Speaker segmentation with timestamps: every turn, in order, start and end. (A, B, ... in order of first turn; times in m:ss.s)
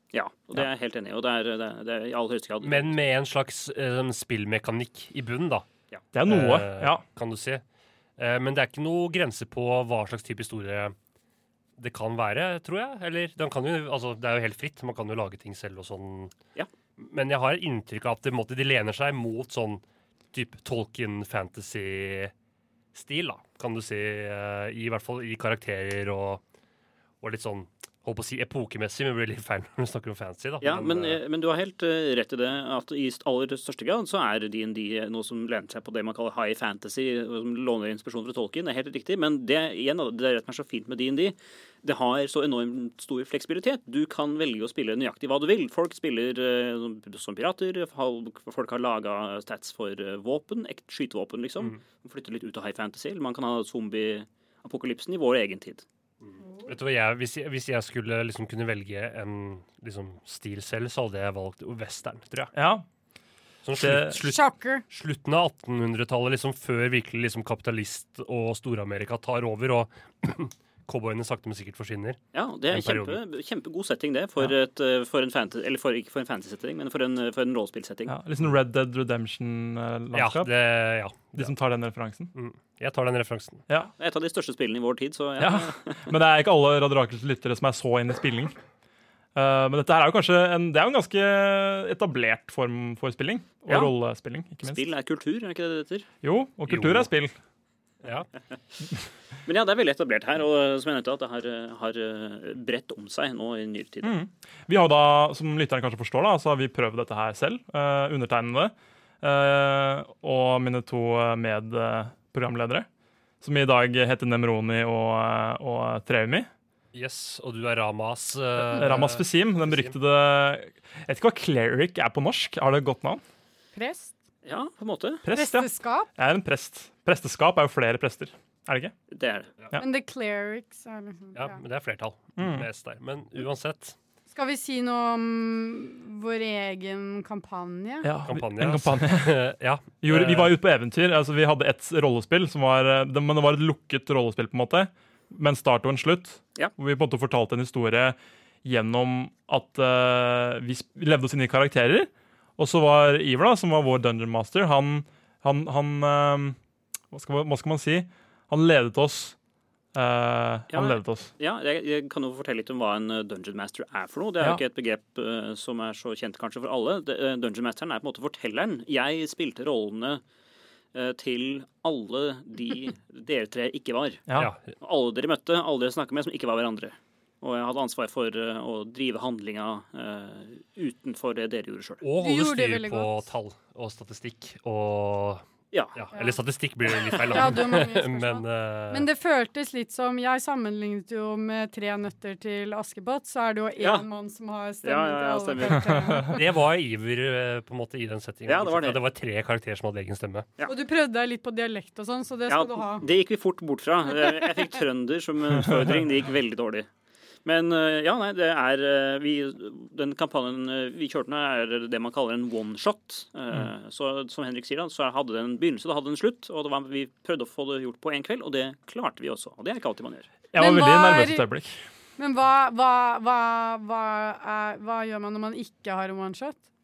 0:00.1-0:03.0 A
0:02.6-0:05.7 B
0:06.1-0:07.0 C
0:06.2-0:07.6 B
0:08.2-0:11.0 B
0:11.8-0:16.3 B
0:17.0-0:22.3 B
0:22.9-0:26.4 B
0:27.2-0:31.2 B
0:30.6-0:55.8 A
0:56.2-1:02.5 B
0:56.4-0:56.7 D
1:02.5-1:02.8 C
1:03.6-1:13.2 B
1:03.8-1:04.2 C
1:04.3-1:04.8 D
1:12.3-1:18.2 A
1:18.1-1:20.5 C
1:20.1-1:21.5 B
1:21.4-1:22.3 C
1:22.4-1:23.6 B
1:24.0-1:26.1 A
1:25.4-1:28.6 C
1:29.4-1:34.8 C
1:34.6-1:36.1 A
1:36.2-1:37.3 C
1:36.7-1:37.1 B
1:38.0-1:38.3 B
1:39.5-1:44.2 A
1:44.0-1:52.9 C
1:53.4-1:56.5 C
1:56.9-1:59.9 B
1:58.7-2:03.2 C
2:03.7-2:04.1 D
2:04.4-2:05.2 A
2:05.2-2:08.9 C
2:05.3-2:06.1 D
2:09.1-2:09.5 A
2:09.8-2:11.6 D
2:11.3-2:14.0 B
2:12.4-2:12.7 C
2:14.3-2:18.1 D
2:18.0-2:19.4 C
2:18.3-2:20.6 B
2:20.0-2:36.6 C
2:37.1-2:39.4 C
2:39.9-2:41.3 C
2:40.7-2:50.2 A
2:50.9-2:54.3 A
2:54.3-2:54.5 C
2:54.4-2:54.6 B
2:54.8-3:02.0 A
3:02.0-3:05.4 B
3:02.2-3:03.3 D
3:05.7-3:06.0 A
3:06.0-3:09.1 B
3:07.1-3:07.6 A
3:07.3-3:16.4 D
3:13.8-3:14.1 A
3:14.8-3:16.0 A
3:16.3-3:20.5 B
3:18.5-3:19.0 A
3:20.6-3:23.0 D
3:22.5-3:26.9 A
3:27.4-3:40.3 A
3:40.5-3:41.8 C
3:40.6-3:41.5 D
3:42.2-3:46.6 D